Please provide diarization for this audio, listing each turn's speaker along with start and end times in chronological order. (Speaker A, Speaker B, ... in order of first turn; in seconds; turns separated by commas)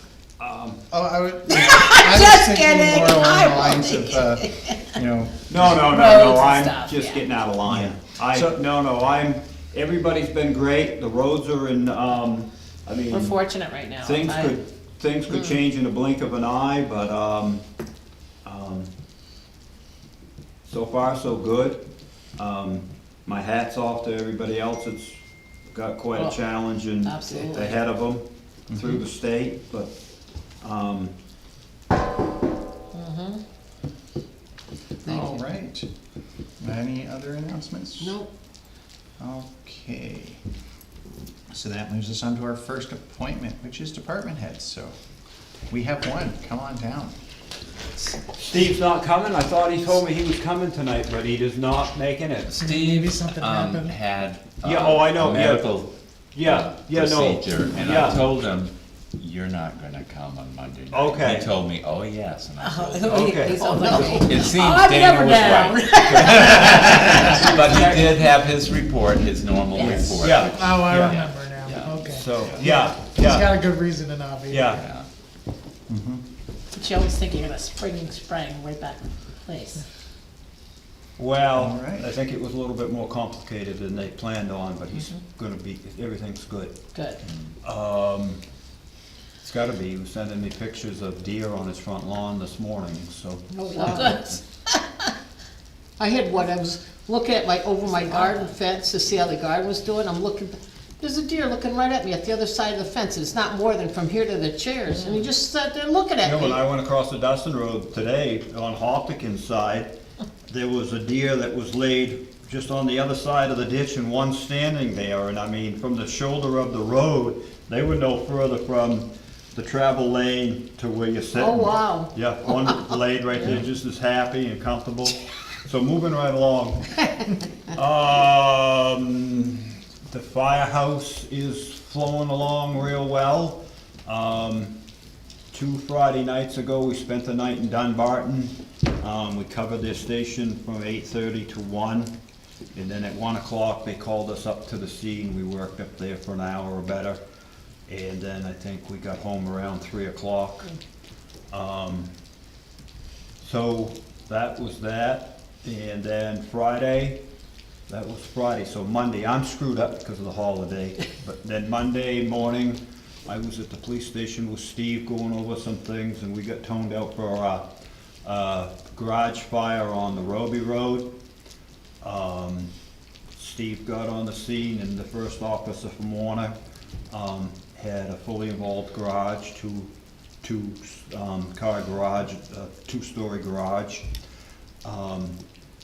Speaker A: 0.4-0.8, Speaker B: 0.9-6.1, Speaker C: 1.5-3.3, Speaker D: 3.5-4.0, Speaker C: 4.0-4.4, Speaker A: 5.5-17.6, Speaker D: 6.0-7.2, Speaker B: 7.7-8.6, Speaker D: 13.1-14.6, Speaker C: 15.3-15.6, Speaker A: 18.4-18.9, Speaker A: 20.6-21.8, Speaker A: 22.4-25.2, Speaker A: 25.7-29.9, Speaker D: 27.3-27.7, Speaker B: 28.7-29.0, Speaker A: 30.6-31.1, Speaker C: 32.9-33.4, Speaker B: 35.0-35.9, Speaker C: 35.0-35.4, Speaker B: 36.6-38.2, Speaker C: 38.0-38.3, Speaker B: 39.2-40.4, Speaker B: 41.5-45.0, Speaker B: 45.7-47.1, Speaker A: 48.4-52.5, Speaker E: 52.5-55.9, Speaker F: 52.5-54.0, Speaker A: 54.6-55.7, Speaker A: 56.3-58.3, Speaker E: 56.4-63.2, Speaker A: 60.9-61.5, Speaker D: 62.7-64.0, Speaker A: 63.0-64.2, Speaker C: 63.1-64.6, Speaker E: 64.2-72.6, Speaker D: 64.6-66.1, Speaker A: 66.1-67.9, Speaker C: 66.2-67.8, Speaker C: 69.8-70.4, Speaker A: 70.2-71.2, Speaker F: 70.5-74.8, Speaker A: 72.0-73.6, Speaker A: 74.5-74.8, Speaker E: 74.8-75.1, Speaker B: 75.9-76.2, Speaker D: 76.7-79.8, Speaker A: 81.2-86.8, Speaker B: 81.5-82.1, Speaker A: 87.6-88.4, Speaker A: 89.4-94.2, Speaker C: 93.5-94.4, Speaker C: 96.0-106.6, Speaker A: 106.2-109.9, Speaker A: 110.5-134.8, Speaker C: 121.4-122.1, Speaker A: 135.5-142.1, Speaker A: 142.7-147.2, Speaker A: 147.9-150.7, Speaker A: 151.5-152.1, Speaker A: 153.4-157.2, Speaker A: 157.9-167.7, Speaker A: 168.2-171.1, Speaker A: 172.0-172.7, Speaker A: 173.4-176.5, Speaker A: 177.1-179.9, Speaker A: 180.4-184.1, Speaker A: 184.8-185.4